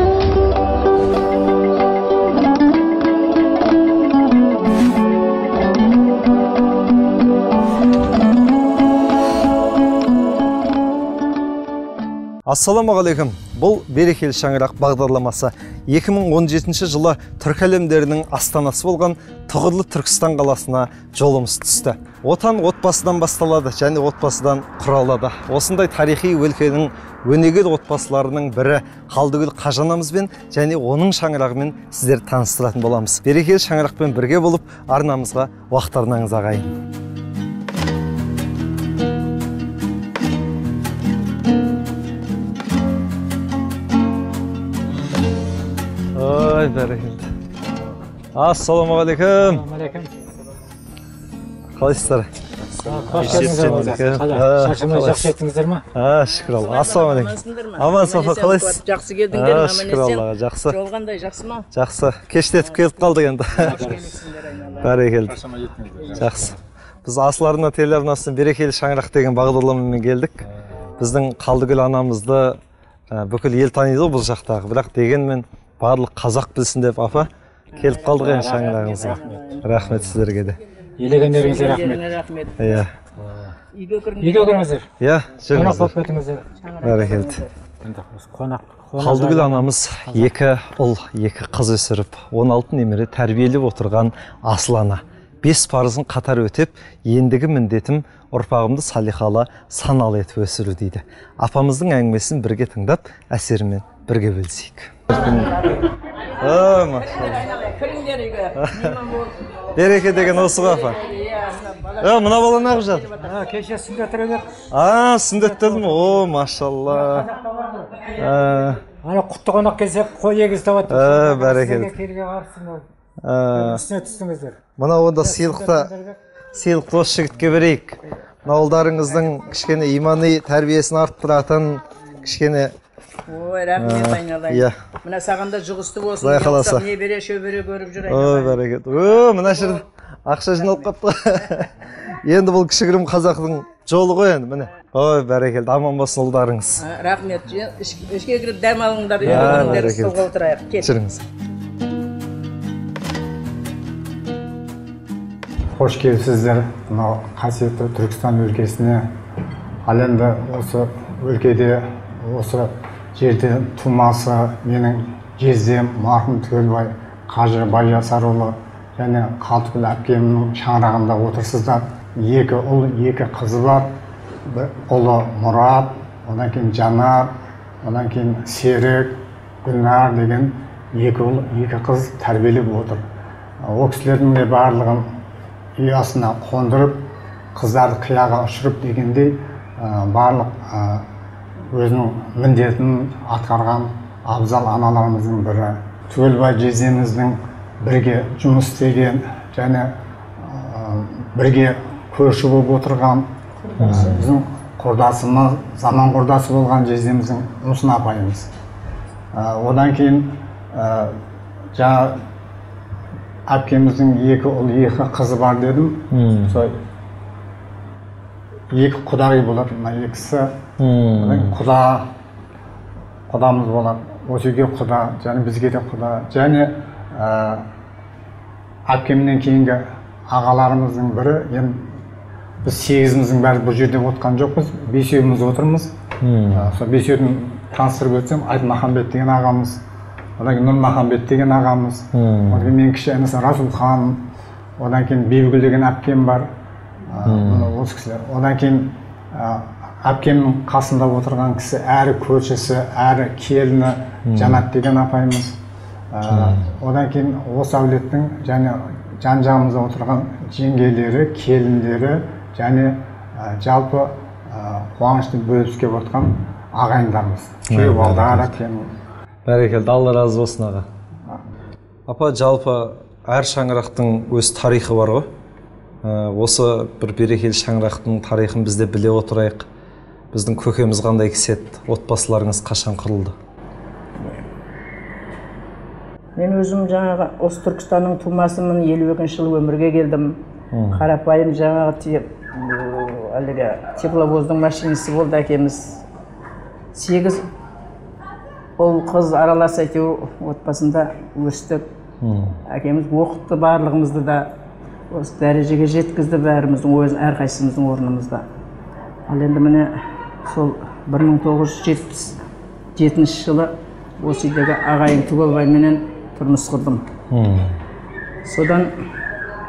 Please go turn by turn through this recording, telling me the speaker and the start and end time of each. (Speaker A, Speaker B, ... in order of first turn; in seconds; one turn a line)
Speaker A: 12.5-36.7
Speaker A: 46.1-47.2
Speaker A: 48.3-49.6
Speaker B: 49.3-50.1
Speaker A: 51.8-52.3
Speaker B: 52.8-55.8
Speaker A: 53.0-55.3
Speaker A: 55.9-58.8
Speaker C: 56.3-61.7
Speaker A: 59.3-60.8
Speaker A: 61.7-64.0
Speaker C: 62.5-65.0
Speaker B: 63.6-63.9
Speaker A: 64.8-65.5
Speaker B: 65.5-66.1
Speaker C: 66.0-66.2
Speaker A: 66.1-70.4
Speaker A: 71.0-72.6
Speaker A: 73.1-80.6
Speaker C: 77.7-79.6
Speaker B: 78.1-79.9
Speaker B: 81.0-82.0
Speaker C: 81.1-82.8
Speaker A: 82.6-82.9
Speaker B: 83.2-83.5
Speaker C: 83.7-84.7
Speaker B: 84.2-84.9
Speaker A: 85.0-86.0
Speaker B: 85.5-86.4
Speaker C: 86.6-87.5
Speaker A: 86.8-87.4
Speaker B: 87.8-90.3
Speaker A: 89.0-105.7
Speaker C: 105.2-105.8
Speaker C: 106.4-113.4
Speaker A: 106.4-107.5
Speaker A: 108.6-108.9
Speaker A: 109.8-111.0
Speaker A: 112.0-113.1
Speaker B: 113.2-114.6
Speaker A: 114.7-117.3
Speaker B: 115.3-116.2
Speaker B: 116.9-118.1
Speaker A: 118.2-118.8
Speaker B: 119.0-122.8
Speaker A: 120.9-121.9
Speaker A: 123.2-123.8
Speaker B: 123.5-124.6
Speaker A: 124.8-125.9
Speaker B: 125.2-126.2
Speaker A: 126.5-132.7
Speaker C: 133.3-138.6
Speaker A: 133.8-134.8
Speaker A: 136.2-136.9
Speaker A: 138.1-141.7
Speaker C: 139.6-139.8
Speaker A: 142.2-146.8
Speaker C: 146.8-150.9
Speaker A: 149.2-150.2
Speaker A: 150.8-151.3
Speaker D: 155.7-159.1
Speaker D: 159.8-173.9
Speaker D: 174.4-177.3
Speaker D: 177.8-183.0
Speaker D: 183.6-185.1
Speaker D: 185.8-187.0
Speaker D: 187.5-191.1
Speaker D: 191.7-208.5
Speaker A: 203.8-204.2
Speaker D: 209.3-211.2
Speaker D: 211.7-212.2
Speaker D: 213.5-216.8
Speaker A: 216.1-216.6
Speaker D: 218.7-220.6
Speaker A: 220.8-221.5
Speaker D: 221.2-222.1
Speaker D: 223.3-227.6
Speaker D: 228.9-232.0
Speaker D: 232.6-235.9
Speaker A: 236.2-236.7
Speaker D: 236.5-239.8
Speaker D: 240.4-244.2
Speaker A: 242.1-242.7
Speaker D: 244.8-246.5
Speaker D: 247.1-255.6
Speaker A: 247.3-247.7
Speaker A: 254.3-254.6
Speaker D: 256.1-268.9
Speaker A: 256.3-256.6
Speaker A: 267.7-268.5
Speaker A: 269.4-270.9
Speaker A: 272.1-275.3
Speaker A: 276.0-279.7
Speaker A: 280.3-283.3
Speaker C: 286.4-290.4
Speaker A: 290.7-291.0
Speaker C: 290.9-296.0
Speaker C: 296.9-297.4
Speaker C: 298.8-301.8
Speaker A: 302.2-302.6
Speaker C: 302.7-304.5
Speaker C: 305.1-308.4
Speaker C: 309.3-309.9
Speaker C: 310.5-312.4
Speaker C: 312.9-317.1
Speaker A: 317.3-317.7
Speaker C: 318.4-318.9